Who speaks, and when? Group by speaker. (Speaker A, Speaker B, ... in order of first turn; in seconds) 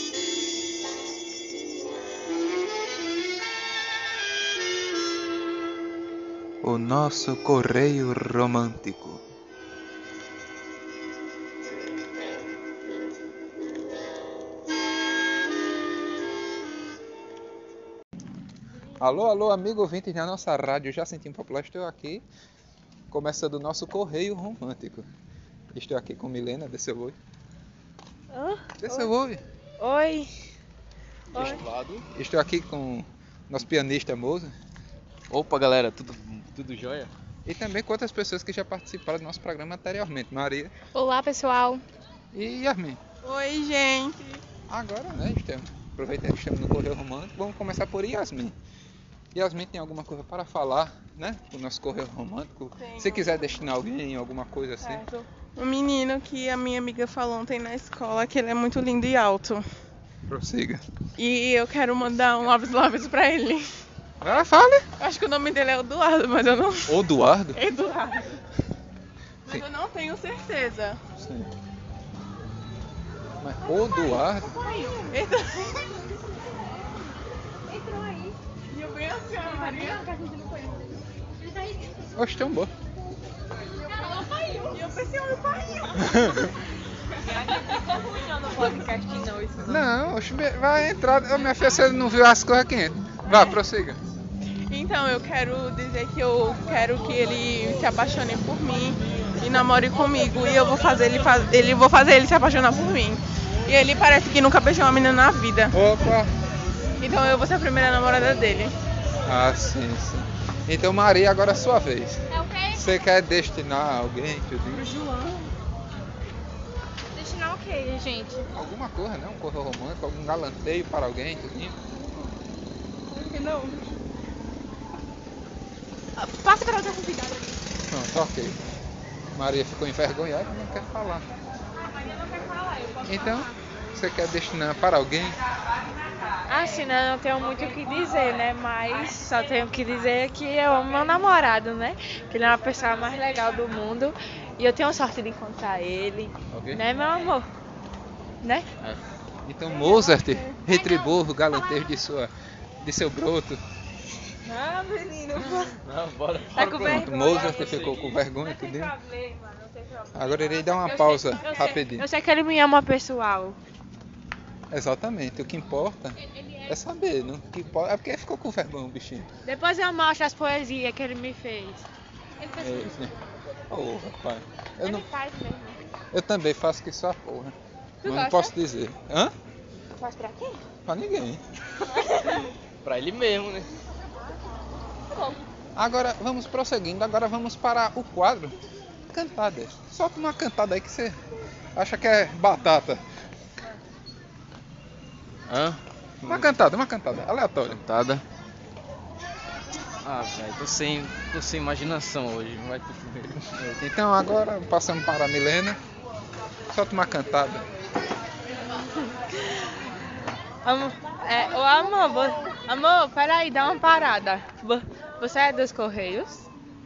Speaker A: 6.6-9.2, 19.0-22.2, 23.1-25.1, 25.7-27.2, 28.8-29.4, 32.1-34.5, 37.5-40.7, 42.3-43.0, 44.7-48.5, 49.3-55.0, 60.3-60.8, 64.2-64.8, 66.9-67.6, 71.2-71.5, 73.4-74.5, 82.1-82.7, 89.6-94.0, 105.7-106.3, 109.2-112.2, 112.7-114.9, 118.5-121.8, 127.9-128.6, 129.3-131.2, 133.0-135.4, 149.4-153.6, 156.9-158.9, 160.1-162.1, 164.7-169.3, 172.6-173.1, 173.7-175.1, 176.1-179.3, 180.8-181.4, 185.8-188.6, 189.1-191.2, 191.7-193.0, 196.2-197.8, 203.6-205.8, 206.7-207.7
Speaker B: 28.3-29.1, 29.8-30.3, 31.3-31.6, 77.8-78.3, 87.5-89.7, 126.4-127.1, 136.5-147.5, 154.4-155.8, 156.5-157.9, 158.4-163.6, 169.4-171.8, 174.8-175.8, 178.0-178.5, 180.0-180.6, 181.9-182.4, 185.1-185.4, 209.4-209.7, 210.6-216.4
Speaker C: 31.3-32.0, 35.3-37.1, 146.5-146.8, 155.3-158.2, 182.8-183.7, 195.5-196.5, 197.7-198.2, 200.0-203.5
Speaker D: 40.9-41.8, 112.3-112.8, 117.1-118.5, 126.3-127.2
Speaker E: 43.2-44.4, 52.8-53.4, 54.8-59.6, 61.1-63.6, 65.0-67.0, 67.5-68.4, 69.4-71.0, 74.5-75.8, 78.7-80.1, 84.0-86.4, 93.3-93.6, 94.7-105.7, 107.0-108.7, 114.7-115.5, 161.3-161.8